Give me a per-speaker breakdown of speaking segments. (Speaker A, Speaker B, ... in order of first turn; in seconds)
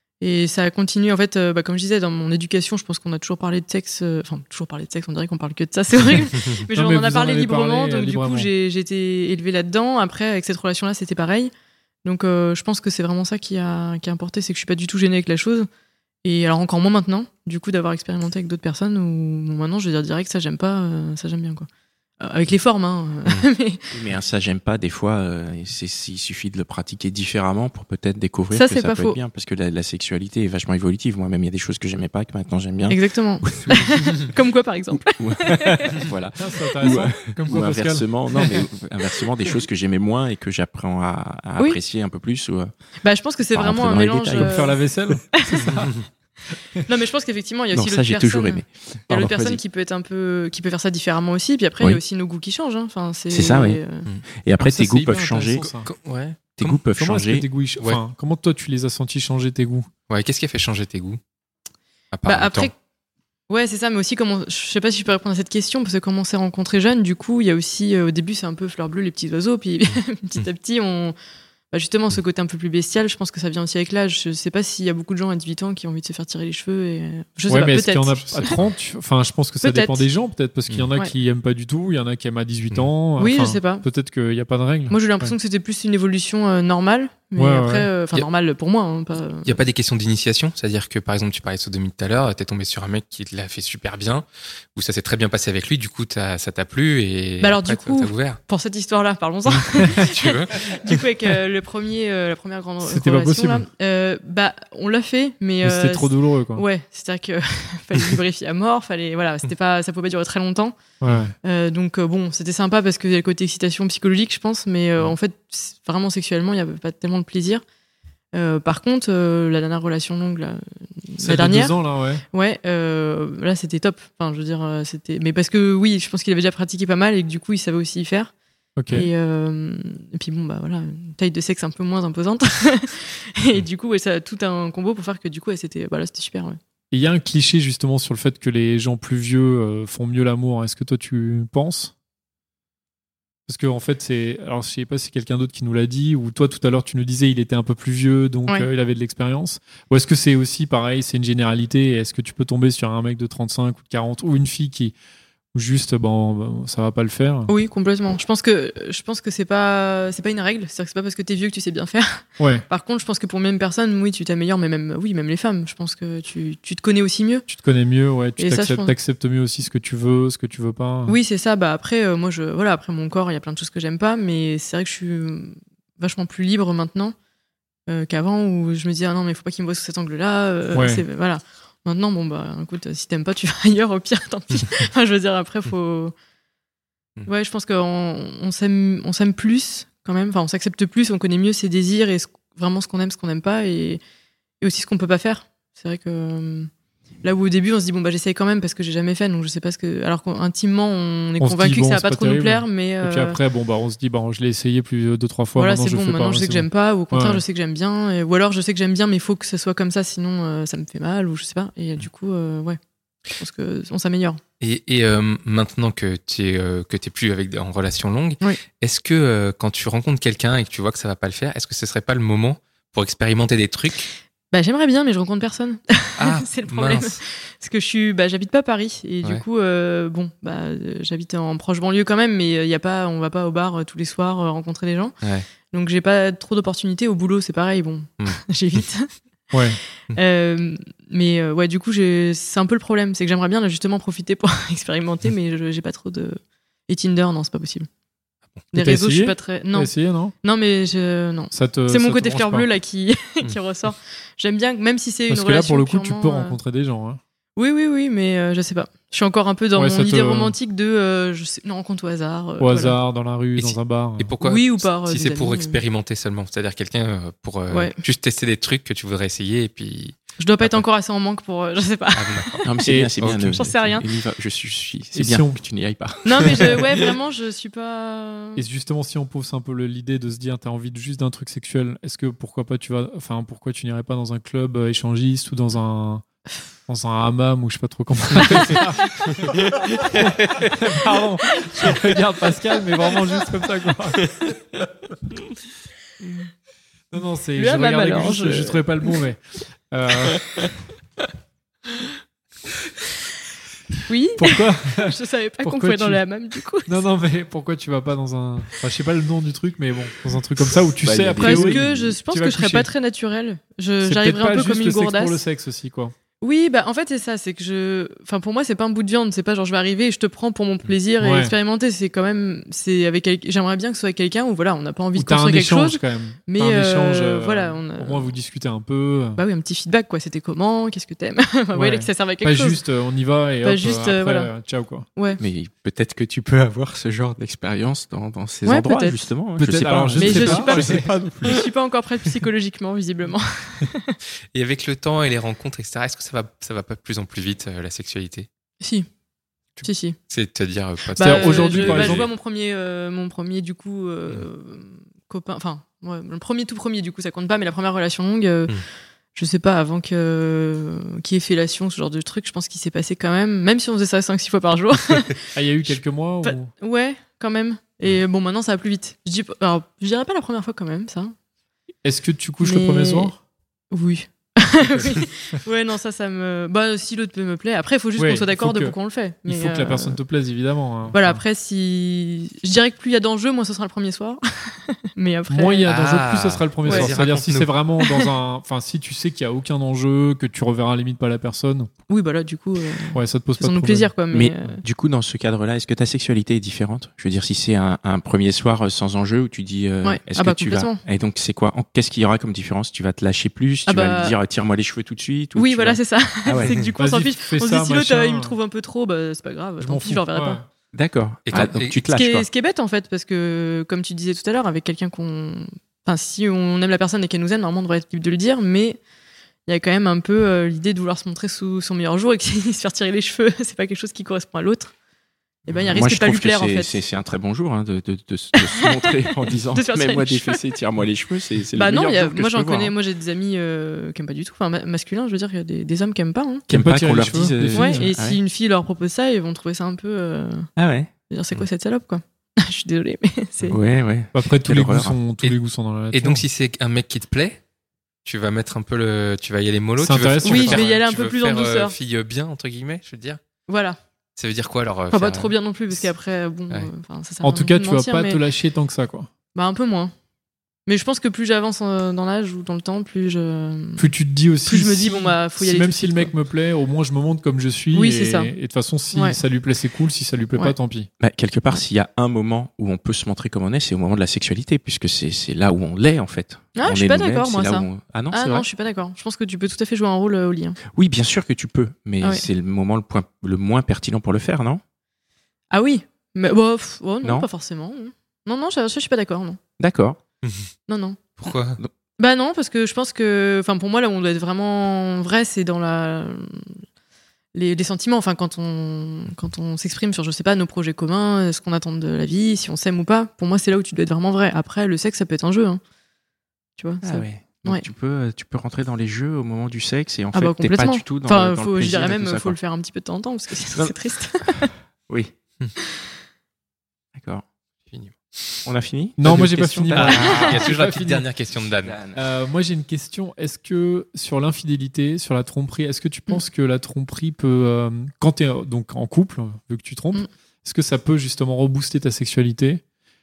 Speaker A: 0.2-11.5, 12.0-15.7, 16.2-21.7, 22.2-23.9, 28.5-29.2, 32.9-36.1, 43.0-44.8, 45.3-45.8, 46.9-54.0, 62.3-62.7, 63.5-71.2, 71.7-78.6, 79.6-80.1, 83.2-83.8, 84.9-89.6, 97.4-110.8, 111.4-117.6, 118.3-121.8, 122.3-128.3, 128.9-136.6, 157.5-167.5, 168.4-168.9, 171.1-177.2, 177.9-186.1, 187.3-194.0, 194.6-196.7, 197.2-203.4, 205.6-214.4, 224.5-235.2, 235.7-239.1, 240.1-247.9, 248.7-256.6, 257.6-263.0, 264.4-265.8, 267.7-268.0, 270.4-272.6, 273.5-274.1, 276.2-278.6, 297.6-298.8, 304.1-307.0, 311.4-315.4, 316.4-328.3, 329.4-332.8, 333.6-334.5, 338.6-339.2, 340.2-344.1, 348.8-349.1, 349.8-350.2, 351.2-358.8, 359.4-371.4, 372.6-373.3, 373.9-380.2, 381.1-385.9, 386.9-387.1, 388.0-388.3, 392.1-394.8, 400.0-401.0, 403.9-404.4, 405.6-410.6, 411.5-419.0, 419.7-424.9, 425.7-426.9, 428.6-430.6, 431.7-436.6, 437.7-440.7, 441.3-443.8, 450.4-451.9, 453.7-454.0, 455.1-458.4, 459.5-460.1, 460.9-464.1, 464.6-466.3, 467.9-468.5, 476.8-480.8, 485.7-489.6, 490.9-491.4, 492.2-496.7, 497.5-505.8, 506.8-507.9, 510.3-514.7
Speaker B: 6.7-8.5, 36.4-38.6, 44.3-46.0, 54.6-55.9, 57.0-59.9, 77.5-85.3, 87.4-87.9, 99.8-100.0, 102.8-103.7, 105.6-106.6, 111.0-111.3, 121.2-122.2, 128.8-129.1, 136.9-141.9, 143.5-155.0, 155.5-157.5, 162.4-162.7, 167.5-171.2, 180.7-181.0, 201.4-207.4, 239.5-239.8, 248.8-250.3, 251.5-252.7, 255.3-257.2, 259.8-260.6, 262.6-264.4, 272.9-273.1, 275.1-275.6, 278.6-286.2, 286.9-289.5, 290.2-294.3, 297.1-299.4, 299.9-300.4, 304.4-306.2, 306.9-312.9, 314.0-316.1, 321.2-321.5, 325.2-329.4, 331.7-335.1, 339.6-341.2, 351.2-352.3, 365.5-366.7, 372.0-373.4, 374.8-375.2, 378.2-381.4, 385.5-391.9, 393.1-394.2, 407.0-408.6, 409.8-410.6, 436.7-438.1, 444.3-446.4, 450.0-450.8, 457.4-459.3, 464.0-471.1, 519.2-521.3, 522.1-532.8
Speaker C: 23.9-34.2, 35.1-42.7, 43.5-44.6, 47.7-49.6, 53.3-53.8, 54.4-55.7, 56.6-57.5, 272.6-276.8, 311.0-312.2, 335.4-341.5, 394.3-406.8, 410.9-412.5, 425.9-432.9, 436.7-438.4, 440.8-441.1, 443.7-445.2, 471.2-478.7, 480.9-484.8, 487.2-487.5, 489.8-490.2, 507.0-512.6, 513.7-515.3, 517.1-517.4, 518.6-520.6, 521.8-522.2
Speaker D: 55.9-56.8, 60.1-61.2, 62.1-62.7, 89.5-98.4, 99.8-101.0, 214.6-224.1, 226.2-227.2, 263.6-270.8, 272.1-272.7, 273.2-273.6, 290.2-290.7, 344.5-348.5, 349.8-352.3, 385.9-387.7, 411.5-412.0, 446.1-447.6, 448.2-453.4, 454.4-455.5, 490.4-490.7, 491.4-491.8, 517.9-518.6, 519.9-522.0